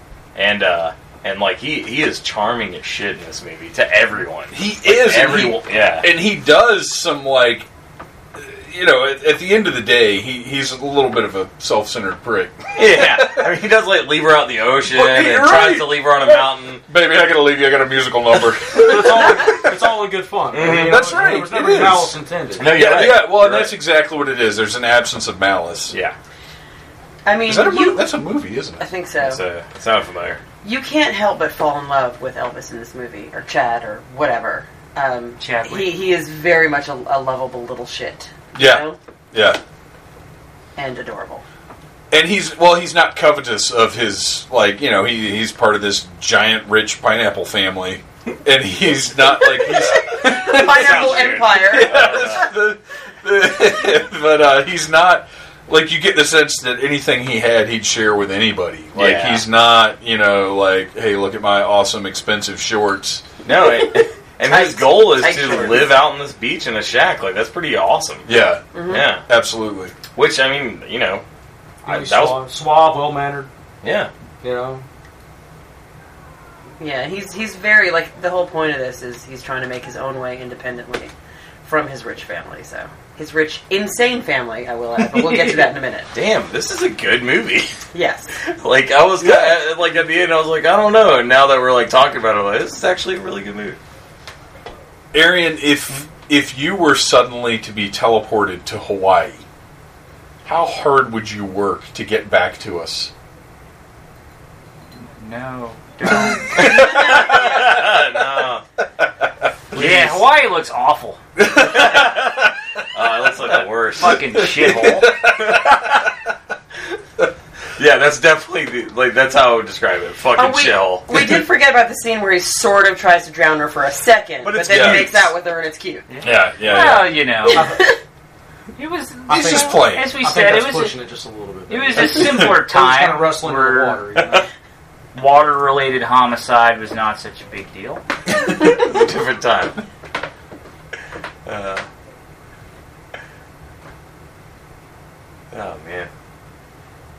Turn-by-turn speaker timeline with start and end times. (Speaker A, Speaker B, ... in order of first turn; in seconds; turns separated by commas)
Speaker A: 0.3-6.1, Speaker B: 4.5-7.7, Speaker B: 8.4-13.5, Speaker A: 12.8-16.8, Speaker B: 14.9-19.8, Speaker C: 18.7-22.8, Speaker A: 20.5-21.2, Speaker B: 20.6-26.0, Speaker A: 22.6-23.7, Speaker D: 27.2-28.1, Speaker B: 27.5-28.9, Speaker D: 28.8-29.4, Speaker A: 29.2-30.4, Speaker D: 30.6-39.0, Speaker E: 35.4-35.9, Speaker B: 38.5-39.6, Speaker D: 40.8-41.4, Speaker B: 42.1-63.2, Speaker D: 50.0-52.4, Speaker A: 50.5-52.5, Speaker A: 59.0-59.5, Speaker A: 63.4-68.3, Speaker D: 64.0-66.0, Speaker B: 68.3-69.9, Speaker D: 68.7-69.1, Speaker A: 68.9-69.2, Speaker A: 70.2-71.2, Speaker A: 71.8-72.5, Speaker C: 71.8-73.5, Speaker A: 73.8-74.1, Speaker C: 74.4-74.8, Speaker D: 76.8-81.1, Speaker D: 81.6-86.1, Speaker A: 86.1-87.8, Speaker D: 87.9-88.4, Speaker A: 88.4-93.8, Speaker B: 89.2-89.6, Speaker B: 95.1-99.4, Speaker B: 100.5-103.1, Speaker E: 105.0-107.1, Speaker A: 106.5-108.6, Speaker B: 106.6-107.7, Speaker A: 109.7-110.2, Speaker E: 109.7-111.2, Speaker B: 111.4-112.3, Speaker A: 111.6-114.2, Speaker E: 114.0-115.2, Speaker B: 114.1-116.0, Speaker A: 115.4-116.0, Speaker A: 117.8-121.1, Speaker D: 120.4-126.1, Speaker A: 124.4-125.3, Speaker B: 124.7-125.1, Speaker E: 126.1-127.8, Speaker B: 126.2-127.1, Speaker D: 127.5-128.0, Speaker E: 128.8-131.0, Speaker C: 129.3-134.5, Speaker B: 129.3-130.2, Speaker E: 131.7-134.4, Speaker E: 135.1-138.0, Speaker A: 138.4-139.8, Speaker A: 141.5-141.9, Speaker A: 145.5-146.1